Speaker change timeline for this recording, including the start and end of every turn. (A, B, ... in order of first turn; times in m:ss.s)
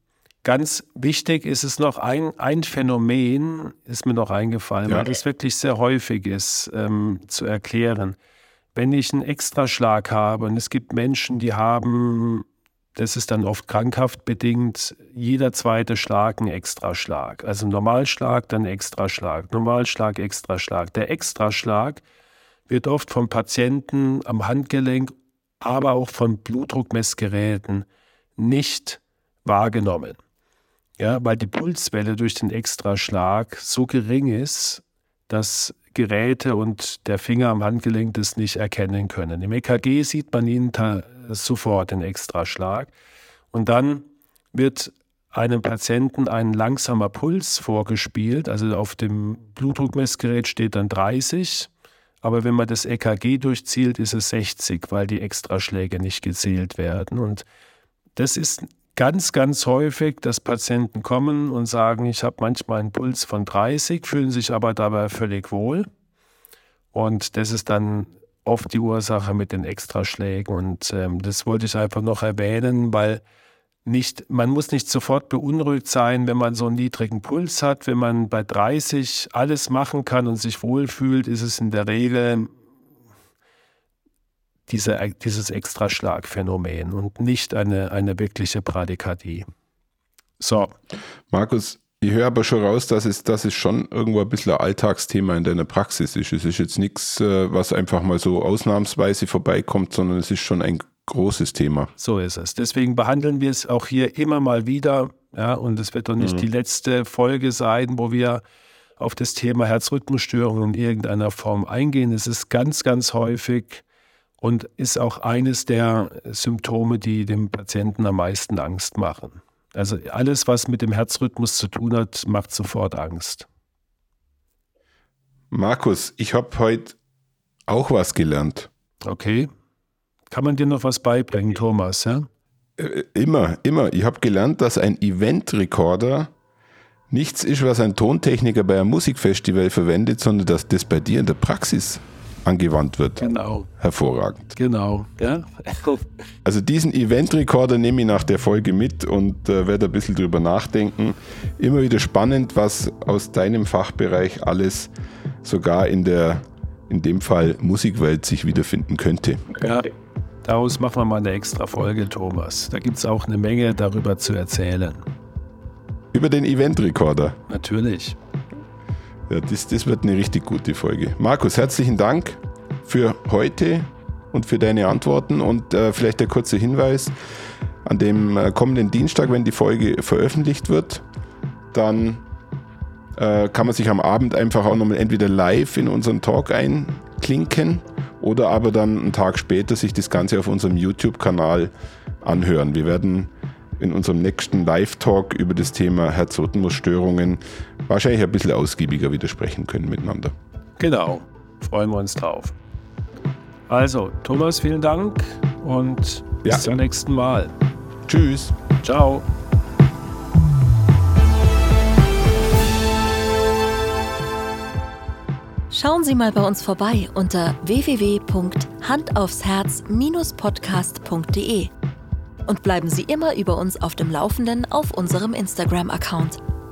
0:00.4-0:08.2 A
0:08.7-0:22.0 A
0:22.7-0:27.8 A
0:28.4-0:30.2 A
0:31.0-0:42.9 A
0:43.5-0:51.7 A
0:52.2-0:57.4 A
0:58.2-1:05.9 A
1:06.9-1:13.2 A
1:13.8-1:22.5 A
1:24.7-1:29.4 A
1:30.4-1:30.7 A
1:31.3-1:41.9 B
1:42.0-1:48.4 A
1:46.2-1:46.4 B
1:49.0-1:53.8 A
1:54.4-2:03.5 A
2:05.5-2:07.0 B
2:07.7-2:08.7 B
2:09.0-2:09.5 A
2:10.3-2:12.3 A
2:12.8-2:16.3 B
2:17.1-2:24.5 B
2:23.2-2:23.7 A
2:24.5-2:26.1 A
2:26.4-2:34.9 B
2:35.4-2:39.5 B
2:39.6-2:39.9 A
2:40.4-2:45.0 A
2:46.1-2:47.4 B
2:47.5-2:48.2 A
2:49.3-2:57.1 B
2:57.8-3:01.0 B
3:01.7-3:02.2 B
3:03.2-3:20.3 B
3:20.8-3:22.6 A
3:23.7-3:27.5 A
3:28.0-3:28.6 B
3:28.8-3:29.2 A
3:35.7-3:41.7 C
3:42.4-3:46.4 C